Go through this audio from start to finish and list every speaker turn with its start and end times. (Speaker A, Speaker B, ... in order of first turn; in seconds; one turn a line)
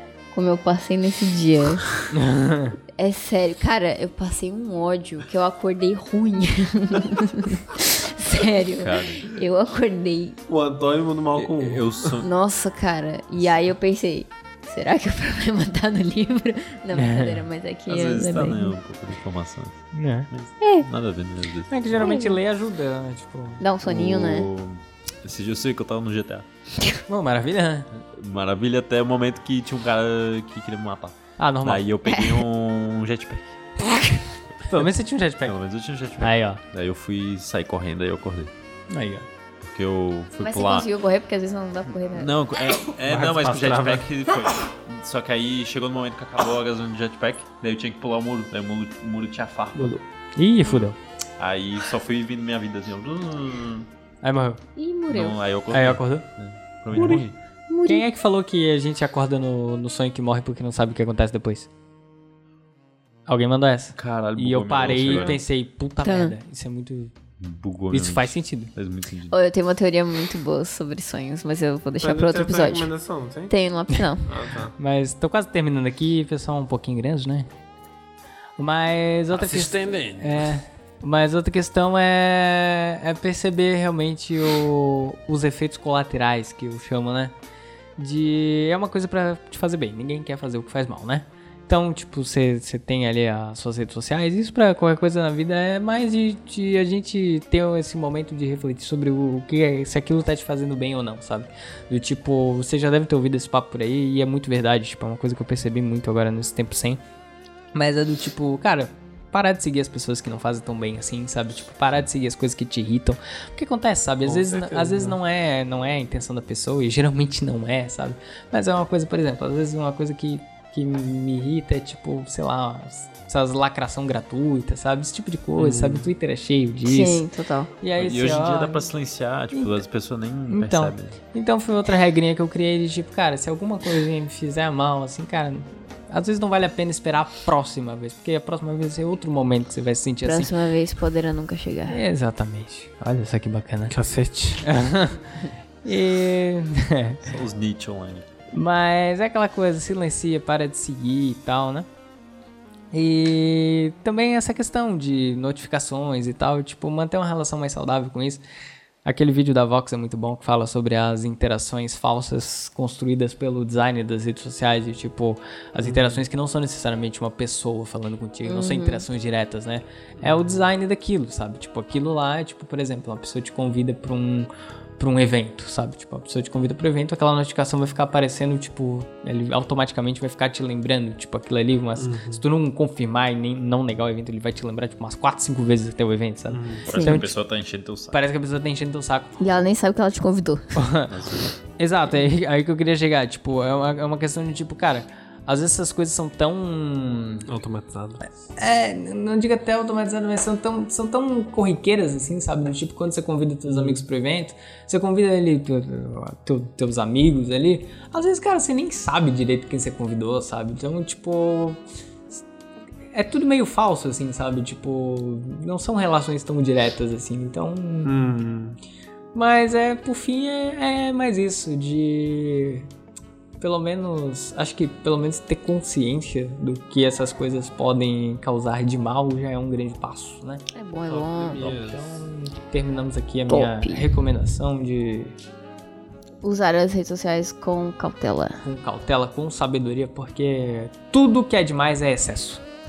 Speaker A: 0.3-1.9
Speaker B: 2.1-2.8
Speaker A: 3.0-10.4
Speaker C: 8.7-9.3
Speaker D: 10.5-12.2
Speaker C: 11.3-12.3
Speaker A: 12.2-18.8
Speaker B: 16.9-17.4
Speaker C: 17.9-22.1
Speaker B: 19.9-20.3
Speaker A: 20.6-20.9
Speaker B: 21.7-23.6
Speaker A: 22.0-22.4
Speaker A: 23.6-24.5
Speaker C: 23.8-26.4
Speaker B: 27.1-27.9
Speaker C: 27.9-33.6
Speaker B: 31.4-31.8
Speaker A: 32.0-32.4
Speaker B: 34.6-35.6
Speaker C: 35.4-38.5
Speaker B: 36.2-36.6
Speaker B: 38.9-39.3
Speaker C: 39.6-40.9
Speaker A: 40.4-42.3
Speaker C: 42.1-50.0
Speaker D: 42.9-44.1
Speaker D: 49.7-50.0
Speaker B: 50.4-51.0
Speaker C: 51.4-53.9
Speaker B: 54.2-54.6
Speaker A: 54.8-55.4
Speaker C: 55.1-57.3
Speaker B: 55.7-56.2
Speaker D: 56.9-57.3
Speaker A: 57.7-58.0
Speaker B: 57.8-61.7
Speaker B: 63.3-67.1
Speaker C: 64.0-65.4
Speaker D: 65.0-65.3
Speaker A: 66.0-66.3
Speaker C: 67.4-69.3
Speaker B: 67.9-68.7
Speaker A: 69.3-72.9
Speaker D: 72.0-73.5
Speaker A: 73.5-74.3
Speaker D: 74.2-74.7
Speaker B: 74.8-77.5
Speaker B: 78.6-87.3
Speaker D: 79.3-80.5
Speaker B: 88.0-107.0
Speaker B: 107.7-127.2
Speaker D: 114.2-115.2
Speaker D: 125.6-126.1
Speaker A: 126.8-127.7
Speaker B: 127.8-128.8
Speaker C: 128.0-131.1
Speaker B: 130.5-140.5
Speaker A: 140.2-142.0
Speaker B: 141.9-143.9
Speaker D: 143.9-144.7
Speaker B: 144.6-147.2
Speaker C: 147.2-148.3
Speaker B: 148.5-151.9
Speaker B: 152.9-158.4
Speaker B: 159.0-187.3
Speaker D: 165.8-166.2
Speaker A: 168.4-169.1
Speaker D: 170.2-170.6
Speaker D: 182.0-182.4
Speaker D: 186.5-186.9
Speaker C: 186.8-188.2
Speaker A: 186.9-187.2
Speaker B: 188.1-189.4
Speaker A: 189.4-190.7
Speaker B: 190.7-191.1
Speaker C: 191.1-191.6
Speaker B: 191.8-197.5
Speaker D: 197.5-198.2
Speaker B: 198.5-211.8
Speaker D: 203.6-204.0
Speaker B: 213.1-218.1
Speaker D: 218.0-218.8
Speaker B: 219.3-222.9
Speaker B: 223.6-230.6
Speaker A: 230.7-231.6
Speaker D: 231.1-232.2
Speaker B: 231.6-235.3
Speaker A: 233.5-234.1
Speaker A: 236.4-238.6
Speaker B: 238.6-242.6